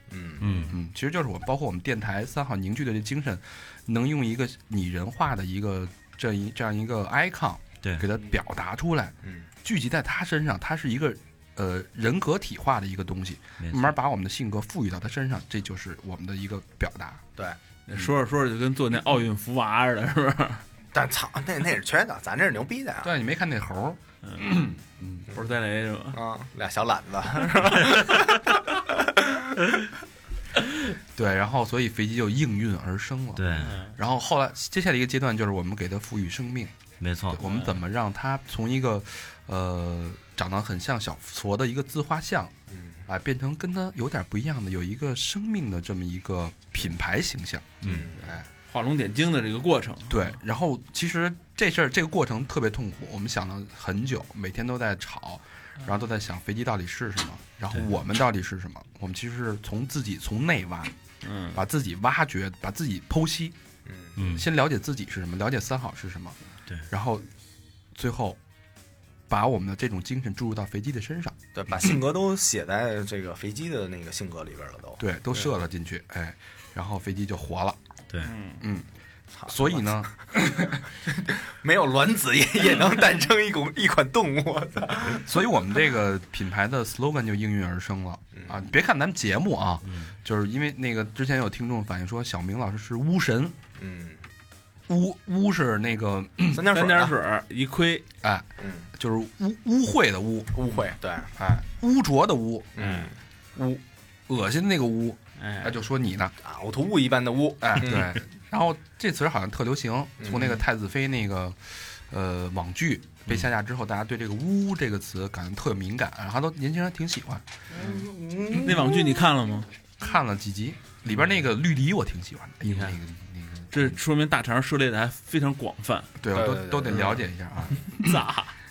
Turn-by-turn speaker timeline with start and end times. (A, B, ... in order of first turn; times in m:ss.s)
0:00.1-0:00.4 A
0:00.4-0:00.8 B
0:00.7-0:17.2 C
0:09.2-0:09.5 A
0:13.6-0:13.9 B
0:17.9-0:20.6 D
0:20.9-0:23.1 A
0:23.0-0:25.3 C
0:24.2-0:24.7 D
0:25.3-0:26.2 D
0:26.1-0:29.6 A
0:31.1-0:36.7 C
0:33.4-0:33.8 B
0:33.6-0:33.9 D
0:37.0-0:37.4 B
0:37.3-0:42.5 C
0:37.4-0:37.8 D
0:42.7-0:43.0 A
0:43.1-0:48.4 C
0:47.8-0:48.2 A
0:48.7-0:50.3 D
0:50.1-1:00.9 C
1:01.2-1:01.6 D
1:01.5-1:03.6 C
1:03.8-1:04.2 A
1:04.2-1:04.5 B
1:04.2-1:06.4 C
1:06.9-1:07.3 C
1:07.9-1:08.4 C
1:09.3-1:12.0 C
1:11.5-1:15.0 A
1:15.0-1:17.8 C
1:18.2-1:18.6 D
1:18.6-1:18.9 C
1:19.4-1:20.1 A
1:19.4-1:20.8 C
1:21.1-1:25.3 A
1:25.1-1:33.6 C
1:28.3-1:28.6 A
1:33.8-1:34.2 A
1:34.9-1:36.6 C
1:36.5-1:37.1 A
1:36.7-1:38.0 D
1:38.2-1:40.6 C
1:38.6-1:38.9 A
1:40.5-1:41.3 A
1:41.4-1:43.0 C
1:42.8-1:43.1 A
1:43.6-1:46.3 C
1:45.4-1:45.8 D
1:46.4-1:48.2 A
1:47.6-1:57.4 C
1:50.2-1:50.6 A
1:57.7-1:59.2 A
1:58.5-1:59.7 D
2:00.0-2:04.0 C
2:02.7-2:03.0 D
2:03.7-2:06.2 D
2:06.2-2:08.3 C
2:06.3-2:07.1 A
2:06.9-2:07.2 D
2:07.8-2:08.5 D